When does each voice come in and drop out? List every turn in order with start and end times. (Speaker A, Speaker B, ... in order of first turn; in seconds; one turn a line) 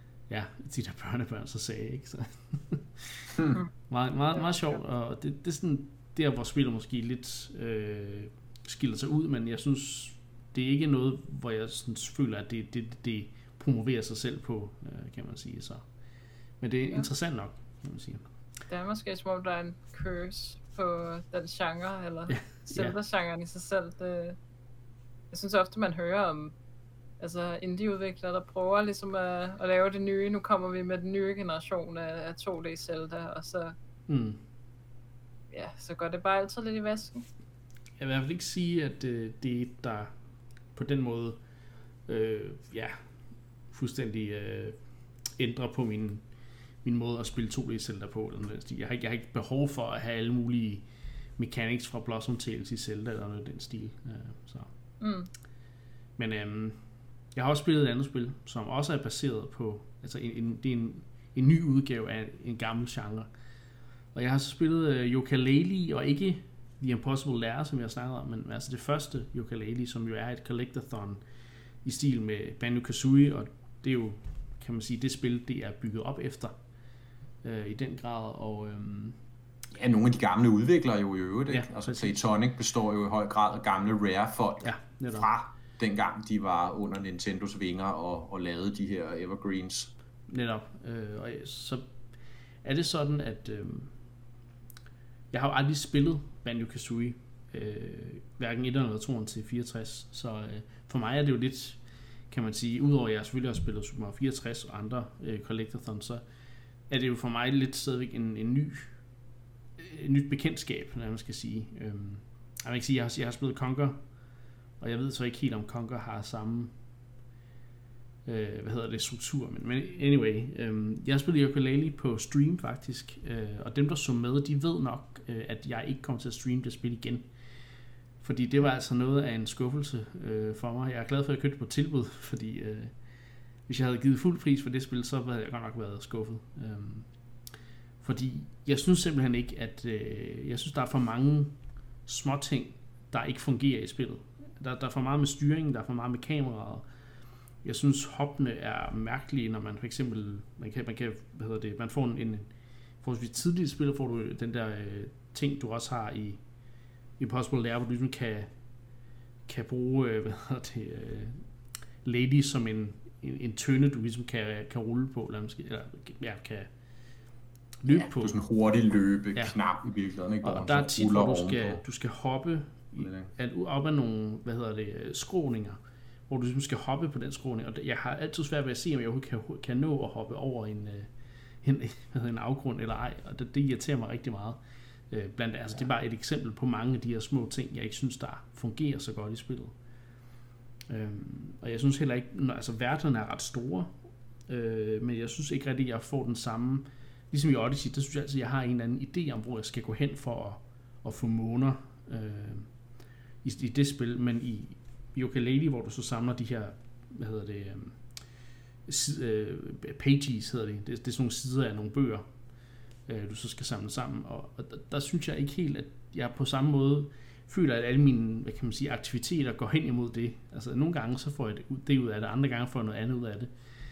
Speaker A: 0.3-3.3
Speaker A: 3.9-15.9
Speaker B: 4.3-4.8
Speaker A: 16.6-18.3
Speaker B: 18.7-24.4
Speaker A: 22.3-23.0
Speaker B: 25.3-26.6
Speaker B: 27.2-33.8
Speaker A: 34.1-34.4
Speaker B: 35.5-37.2
Speaker A: 38.0-40.1
Speaker A: 40.7-41.4
Speaker A: 42.0-43.1
Speaker A: 43.7-46.2
Speaker A: 46.8-54.7
Speaker B: 55.0-55.3
Speaker A: 56.2-63.3
Speaker A: 64.1-71.2
Speaker A: 71.8-76.5
Speaker A: 77.4-79.2
Speaker C: 79.7-89.9
Speaker A: 81.5-82.3
Speaker A: 84.6-85.3
Speaker A: 90.3-94.0
Speaker A: 95.3-106.2
Speaker A: 106.9-109.0
Speaker A: 109.8-114.0
Speaker A: 114.8-116.7
Speaker A: 118.3-127.3
Speaker A: 128.2-133.0
Speaker A: 133.6-137.2
Speaker A: 138.0-146.8
Speaker A: 147.6-156.4
Speaker A: 157.2-158.5
Speaker A: 159.5-161.5
Speaker A: 162.0-166.7
Speaker A: 167.8-168.4
Speaker C: 167.9-171.8
Speaker A: 170.4-181.1
Speaker C: 173.0-173.3
Speaker A: 181.6-184.6
Speaker A: 185.1-189.8
Speaker A: 190.9-193.9
Speaker A: 194.5-202.8
Speaker A: 203.4-208.2
Speaker A: 208.8-212.3
Speaker A: 213.1-223.5